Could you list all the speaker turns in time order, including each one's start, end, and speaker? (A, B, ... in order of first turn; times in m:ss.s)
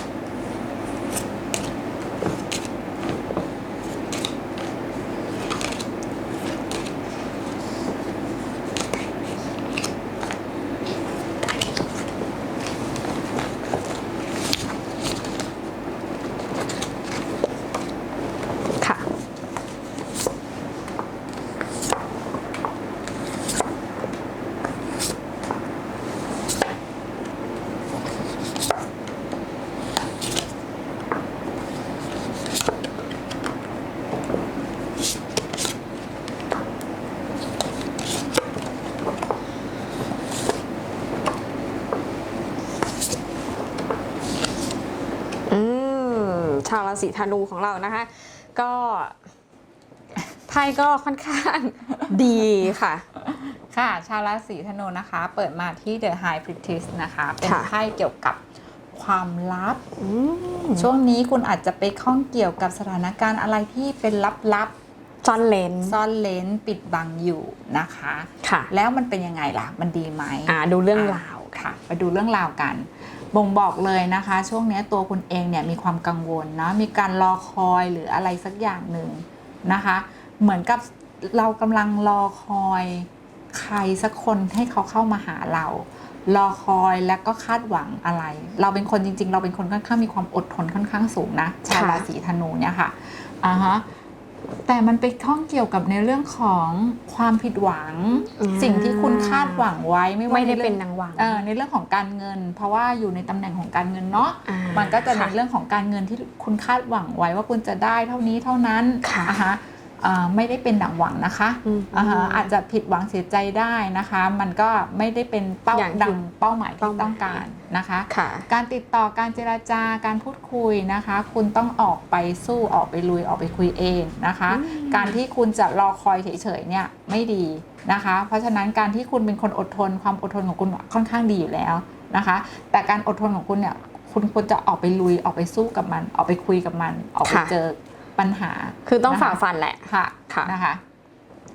0:45.5-0:49.2 A
0:50.5-0:53.1 A
0:53.2-0:58.4 B
0:57.4-0:57.7 A
0:58.9-0:59.8 B
1:00.0-1:00.9 A
1:00.8-1:04.7 B
1:05.2-1:06.0 A
1:05.8-1:33.8 B
1:08.4-1:08.7 A
1:10.5-1:11.6 A
1:31.7-1:32.1 A
1:34.7-2:20.8 B
1:38.4-1:39.6 A
1:40.3-1:41.4 A
1:44.5-1:45.3 A
1:49.0-1:49.4 A
1:51.6-1:52.5 A
1:55.7-1:56.2 A
1:56.8-1:57.4 A
1:58.1-1:58.5 A
2:04.5-2:05.2 A
2:17.2-2:17.6 A
2:18.8-2:20.5 A